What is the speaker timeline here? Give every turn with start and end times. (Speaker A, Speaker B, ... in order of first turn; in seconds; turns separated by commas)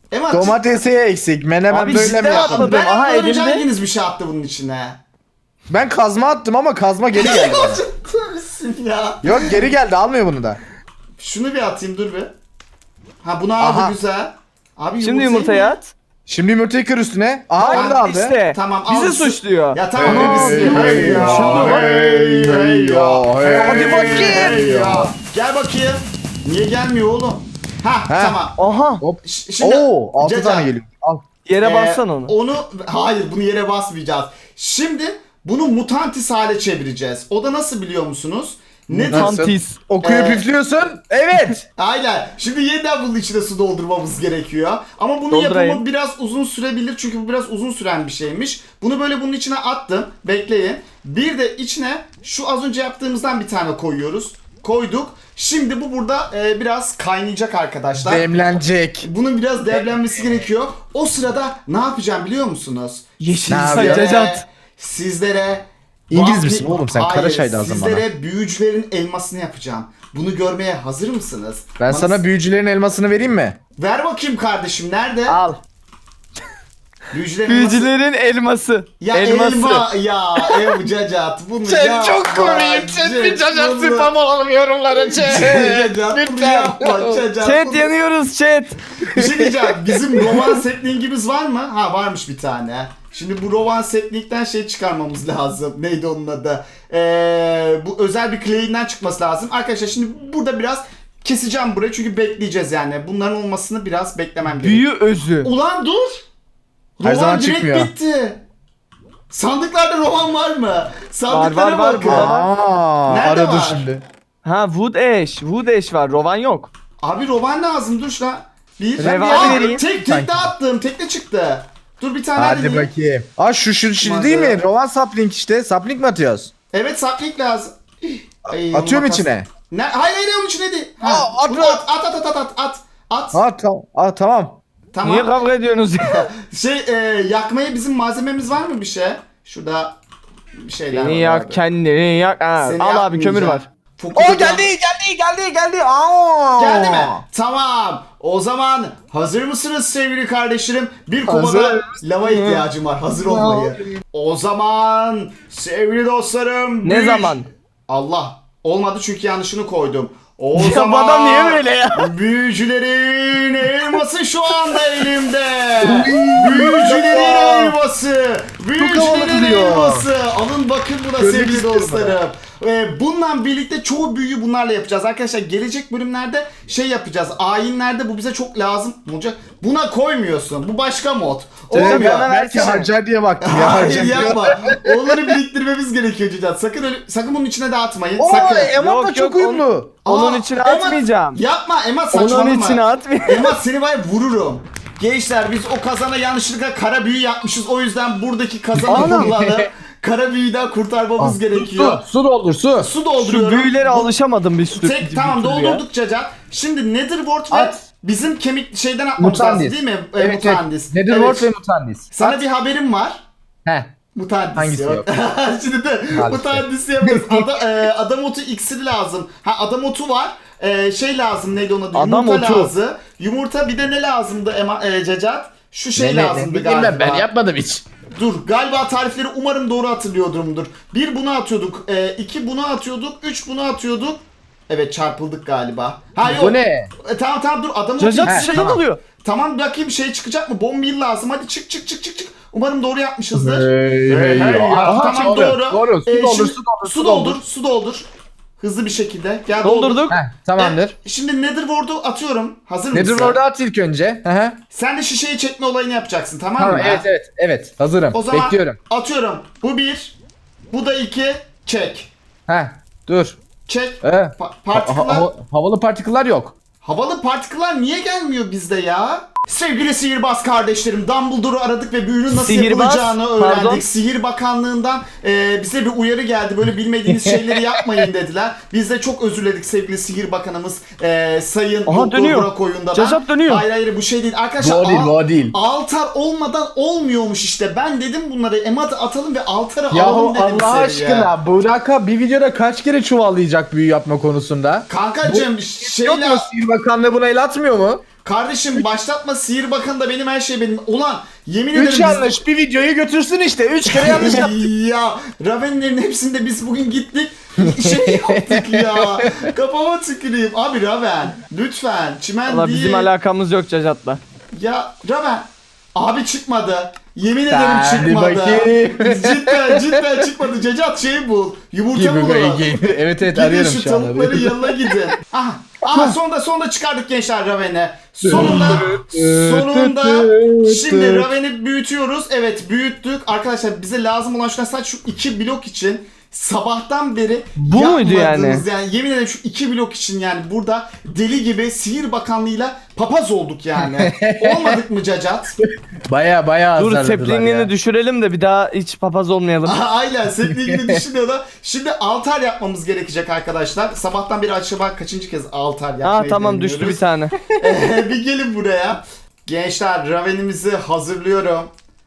Speaker A: 0.1-0.6, Speaker B: 0.3-2.7, Speaker C: 1.7-3.6, Speaker A: 1.9-5.0, Speaker B: 5.7-7.8, Speaker A: 7.1-9.6, Speaker B: 9.2-10.6, Speaker A: 11.2-12.3, Speaker A: 13.2-15.8, Speaker B: 13.6-13.9, Speaker C: 15.0-15.9, Speaker B: 16.3-18.4, Speaker C: 17.6-22.0, Speaker A: 17.7-28.6, Speaker B: 19.9-25.1, Speaker B: 28.1-28.4, Speaker C: 28.6-29.0, Speaker B: 29.0-31.2, Speaker A: 29.2-30.7, Speaker C: 31.4-32.3, Speaker A: 31.6-39.4, Speaker B: 38.9-41.6, Speaker C: 39.1-39.8, Speaker A: 40.0-40.4, Speaker A: 41.8-58.3, Speaker C: 45.3-45.8, Speaker B: 58.0-59.1, Speaker A: 59.0-72.2, Speaker C: 63.2-64.4, Speaker B: 63.5-64.0, Speaker B: 66.1-68.0, Speaker B: 71.8-73.6, Speaker A: 73.8-75.4, Speaker C: 75.3-75.6, Speaker A: 77.1-77.9, Speaker C: 77.5-79.8, Speaker A: 79.0-84.1, Speaker B: 81.6-87.2, Speaker A: 84.9-87.9, Speaker C: 87.4-88.8, Speaker A: 89.0-104.8, Speaker B: 89.1-90.4, Speaker C: 104.4-105.5, Speaker A: 105.4-106.2, Speaker A: 107.0-108.4, Speaker B: 107.0-107.9, Speaker A: 109.3-112.3, Speaker C: 111.3-112.5, Speaker B: 112.0-114.0, Speaker A: 113.1-113.8, Speaker C: 114.4-116.7, Speaker A: 117.0-122.9, Speaker B: 119.0-120.5, Speaker C: 119.0-119.8, Speaker B: 122.3-126.5, Speaker A: 124.0-124.6, Speaker A: 126.7-133.4, Speaker B: 128.7-129.5, Speaker B: 131.0-131.8, Speaker B: 133.3-134.6, Speaker A: 134.9-135.4, Speaker C: 135.0-136.3, Speaker A: 136.0-139.9, Speaker A: 140.6-141.6, Speaker C: 140.9-143.7, Speaker A: 142.6-144.7, Speaker B: 144.1-147.2, Speaker A: 146.6-182.8, Speaker B: 151.2-152.0, Speaker C: 152.2-152.6, Speaker B: 153.2-154.0, Speaker C: 156.8-157.5, Speaker C: 160.5-162.1, Speaker B: 165.8-167.8, Speaker B: 168.8-170.1, Speaker B: 171.2-172.2, Speaker C: 181.7-182.9, Speaker B: 181.7-185.4, Speaker A: 183.4-188.8, Speaker B: 188.2-189.9, Speaker C: 188.7-191.4, Speaker A: 190.1-202.0, Speaker C: 192.1-193.6, Speaker B: 198.7-199.7, Speaker C: 198.9-199.3, Speaker B: 201.2-202.9, Speaker A: 202.8-204.1, Speaker C: 203.2-205.8, Speaker A: 204.8-211.5, Speaker B: 207.5-207.8, Speaker B: 209.2-212.4, Speaker A: 212.1-213.2, Speaker B: 213.7-213.9, Speaker A: 214.1-227.3, Speaker B: 214.5-215.1, Speaker B: 216.1-217.5, Speaker C: 221.9-222.7, Speaker B: 225.9-227.8, Speaker A: 228.2-248.1, Speaker B: 236.2-236.9, Speaker C: 238.0-239.0, Speaker B: 238.2-238.7, Speaker B: 243.3-247.4, Speaker C: 244.8-245.5, Speaker A: 248.6-253.4, Speaker C: 249.6-250.2, Speaker B: 250.1-250.9, Speaker B: 252.9-254.6, Speaker A: 254.7-257.1, Speaker B: 256.6-258.8, Speaker A: 258.1-260.1, Speaker A: 260.7-262.1, Speaker B: 262.5-263.4, Speaker A: 263.7-265.3, Speaker B: 264.0-266.5, Speaker A: 266.8-291.3, Speaker C: 272.3-273.8, Speaker C: 281.9-283.6, Speaker B: 284.6-285.5, Speaker B: 289.9-298.0, Speaker A: 294.9-296.5, Speaker A: 298.2-302.4, Speaker B: 301.7-304.7, Speaker A: 303.9-313.1, Speaker B: 307.6-309.5, Speaker C: 312.5-314.2, Speaker A: 314.5-345.6, Speaker B: 317.5-320.3, Speaker B: 321.9-325.0, Speaker B: 328.2-331.3, Speaker C: 328.6-328.8, Speaker C: 337.6-338.6, Speaker B: 344.0-344.8, Speaker B: 345.6-347.7, Speaker C: 346.8-349.8, Speaker A: 349.6-357.0, Speaker B: 350.4-351.0, Speaker C: 356.0-357.4, Speaker A: 357.6-361.7